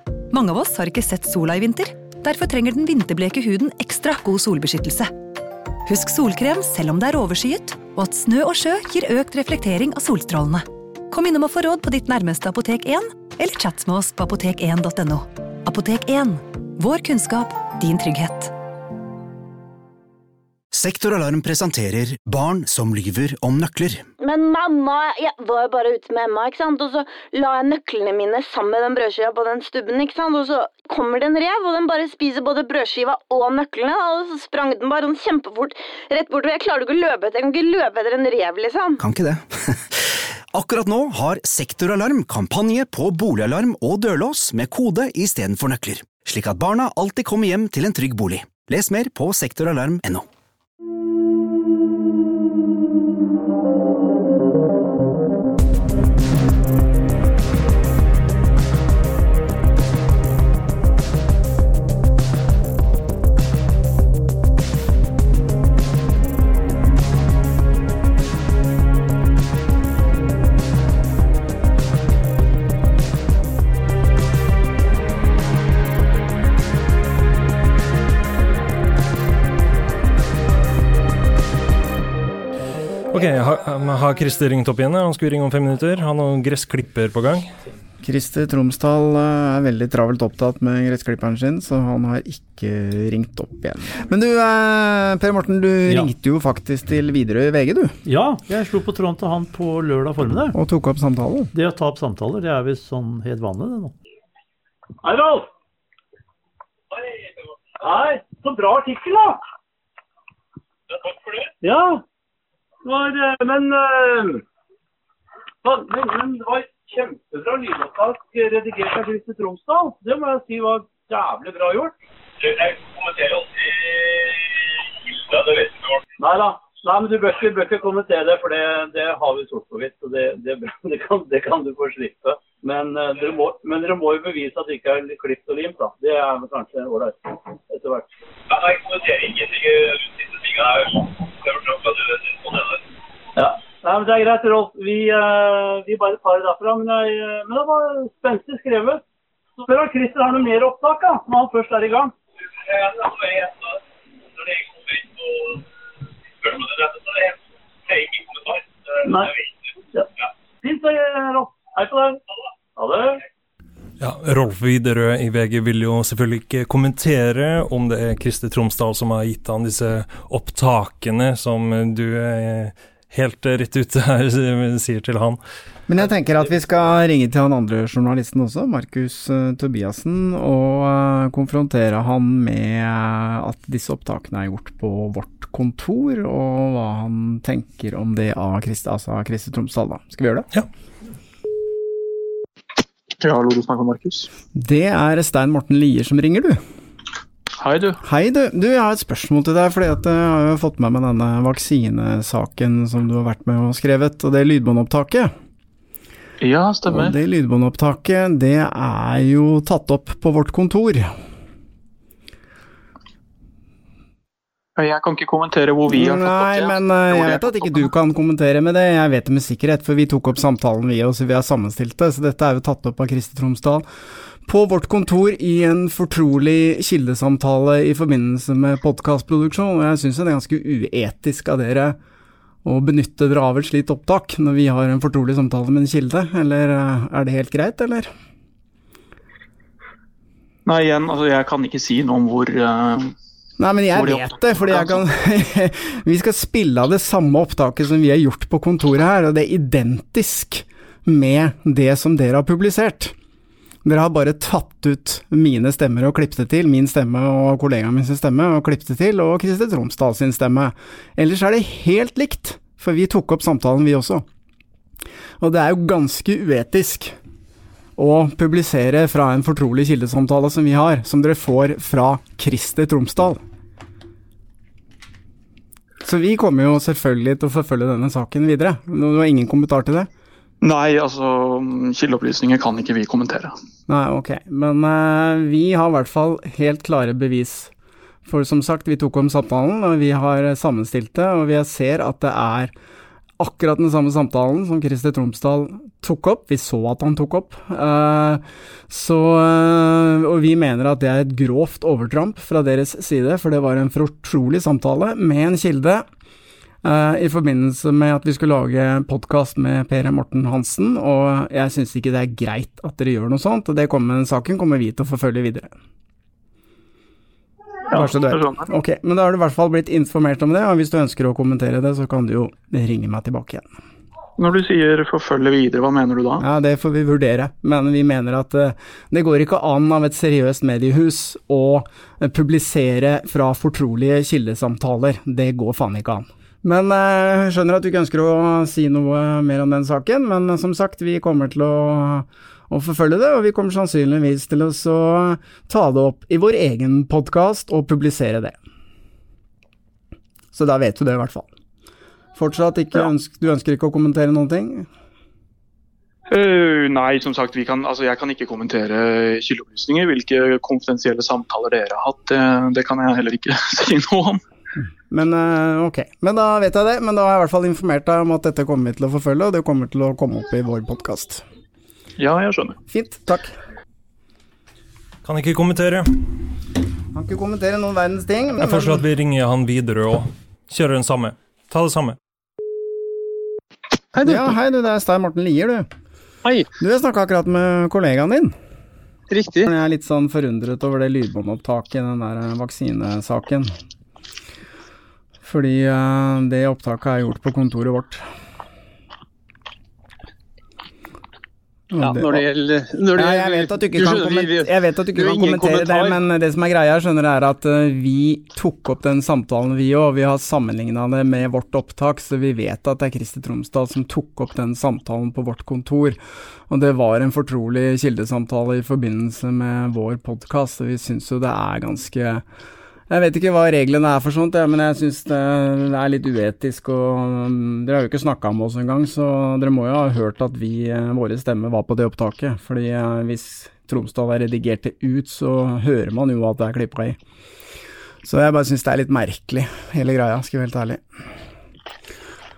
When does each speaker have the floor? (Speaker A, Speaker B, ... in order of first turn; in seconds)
Speaker A: 0.3-5.1, 5.9-18.5
Speaker B: 20.7-24.1, 39.0-39.8, 40.5-50.3
Speaker C: 24.2-39.0
Speaker D: 83.1-87.5, 164.0-175.4, 375.2-376.3, 378.6-382.2
Speaker E: 88.0-98.0, 100.5-101.5, 175.9-190.5, 194.6-196.6, 198.0-205.3, 206.9-211.1, 215.9-223.8, 224.5-232.0, 232.6-238.1, 243.6-253.2, 253.8-264.3, 265.4-267.2, 268.0-273.4, 276.0-280.1, 283.9-287.7, 288.2-292.7, 293.4-306.1, 306.8-315.7, 317.9-323.7, 326.4-348.6, 350.5-351.5, 352.4-354.9, 365.1-371.4, 372.9-373.6, 377.1-379.0, 384.2-385.9, 386.8-388.6, 389.6-393.7, 395.4-398.2, 401.9-402.5, 403.1-422.4, 423.1-437.2, 438.2-441.0
Speaker F: 98.0-100.6, 101.5-104.0
Speaker G: 105.0-105.5, 107.8-109.4, 111.6-112.0, 112.8-114.4, 115.6-121.9, 126.2-138.1, 143.4-149.0, 149.6-152.1, 159.0-159.4, 160.6-162.2, 162.8-163.2
Speaker H: 122.6-123.4, 138.5-142.1, 157.9-158.6
Speaker I: 193.2-194.3, 197.6-198.0, 206.4-207.2, 214.8-217.8, 240.7-243.1, 243.9-245.0, 280.6-283.5, 317.9-318.7, 324.4-326.4, 356.3-364.4, 372.2-372.8
Speaker J: 384.1-384.6, 389.3-389.7, 402.0-406.2